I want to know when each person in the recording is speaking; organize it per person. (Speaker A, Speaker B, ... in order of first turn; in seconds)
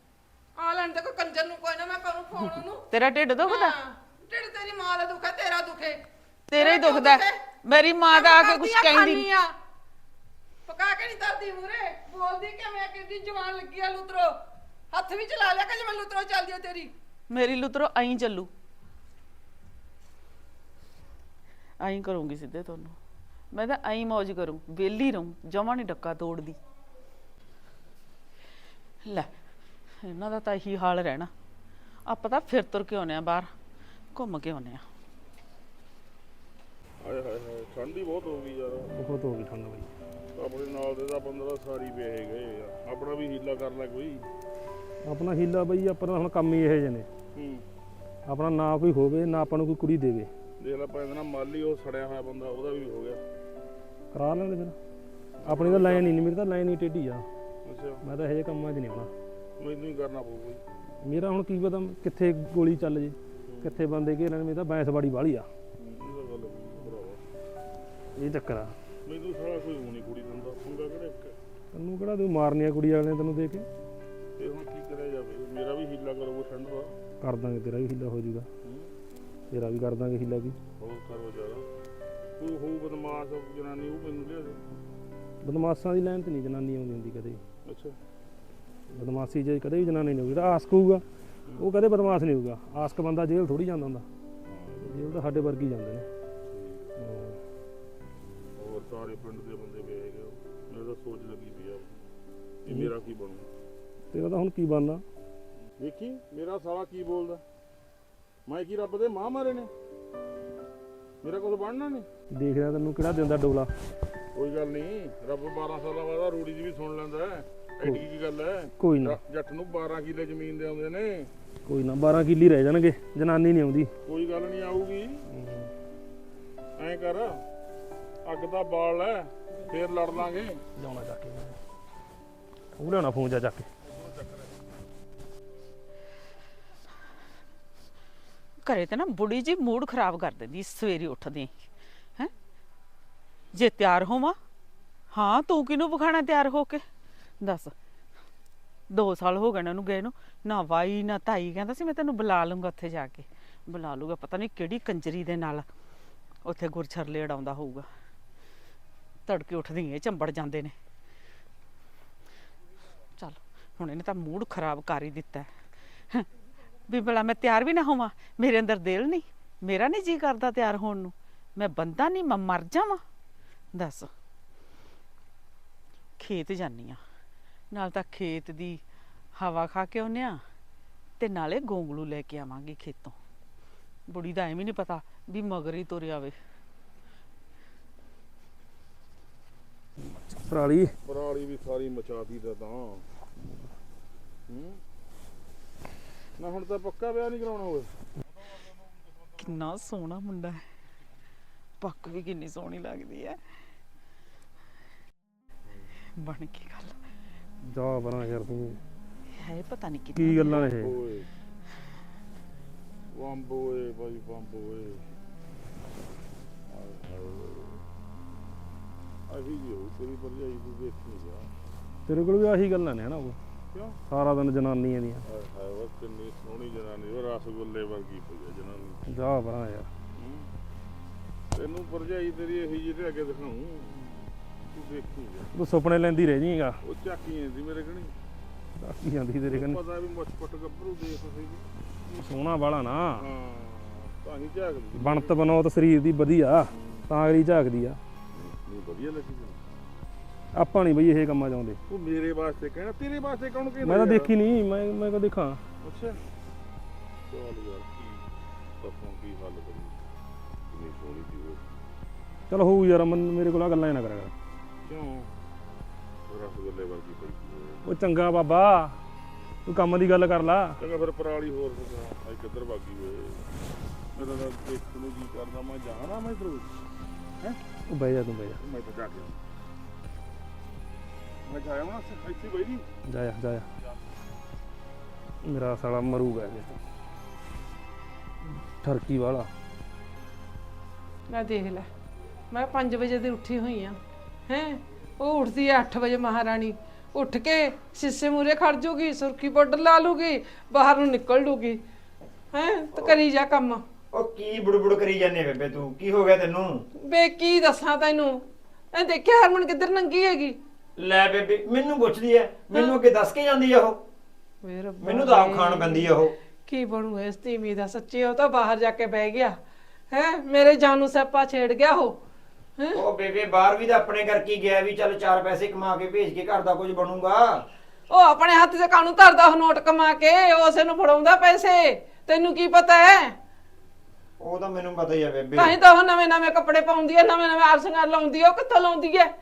Speaker A: 0.6-2.8, 3.4-6.0, 6.5-7.4, 8.1-9.5, 10.7-14.3, 14.9-16.9, 291.3-291.9, 292.5-301.8, 302.5-303.8, 307.0-310.6, 314.6-316.1, 316.6-319.6, 320.1-322.2, 328.1-333.3, 335.6-339.3
Speaker B: 2.9-3.7, 6.5-9.3, 17.3-18.5, 21.8-23.0, 23.5-26.6, 29.0-29.3, 30.0-31.3, 32.1-33.5, 34.1-34.8, 138.7-141.6, 143.5-144.4, 145.1-146.8, 147.4-147.7, 148.9-155.7, 156.4-157.9, 159.3-160.7, 163.2-165.5, 166.9-173.0, 173.7-174.1, 176.2-177.0, 177.7-178.8, 179.4-180.4, 181.2-183.2, 184.1-186.3, 199.4-200.6, 201.8-203.4, 206.2-206.9, 209.3-210.6
Speaker C: 37.0-38.9, 40.3-44.2, 47.3-47.6, 50.6-53.2, 55.4-56.1, 57.6-58.0, 59.6-60.6, 63.5-63.8, 65.8-67.2, 69.0-71.4, 74.4-77.0, 78.6-78.9, 80.8-81.7, 82.4-84.6, 87.6-88.0, 94.5-95.1, 96.5-97.0, 98.6-102.0, 102.6-103.5, 105.8-107.4, 108.5-109.7, 111.2-112.1, 114.3-121.3, 124.0-125.2, 126.8-127.4, 128.2-130.6, 133.8-134.6, 191.0-193.0, 194.5-194.8, 196.4-197.9, 210.4-211.3, 213.1-215.1, 216.7-217.8, 219.3-221.5, 223.7-224.0, 225.2-229.0, 230.2-230.5, 231.5-235.5, 236.8-238.1, 239.5-241.7, 243.2-245.4, 246.7-247.1, 248.3-249.6, 251.9-254.3, 255.8-256.2, 257.3-258.2, 258.8-260.0, 260.7-261.6, 264.9-265.3, 266.3-267.8, 270.8-273.5, 274.1-276.7, 278.6-279.4, 281.4-282.9
Speaker D: 38.9-39.9, 45.0-47.1, 48.3-50.3, 54.1-54.7, 55.4-57.2, 58.0-59.1, 61.0-65.5, 68.2-68.7, 71.7-73.7, 77.2-78.5, 79.5-80.6, 85.4-87.4, 88.9-91.0, 91.6-94.0, 94.8-96.1, 97.0-97.4, 104.1-105.0, 112.3-113.7, 118.8-119.2, 121.7-123.9, 125.3-125.7, 130.8-131.6, 132.8-133.7, 190.3-190.9, 207.6-208.8, 210.2-211.0, 222.1-223.4, 224.1-225.2, 229.1-229.9, 235.5-236.8, 238.8-239.8, 242.1-243.3, 244.9-248.0, 250.5-251.8, 253.8-255.6, 262.5-264.3, 267.8-269.0, 269.7-270.8, 277.9-278.6, 283.1-283.7, 285.4-286.8, 288.5-289.5
Speaker E: 302.9-303.2, 304.1-306.8, 311.0-314.0, 315.0-316.3, 322.9-327.6, 334.4-335.8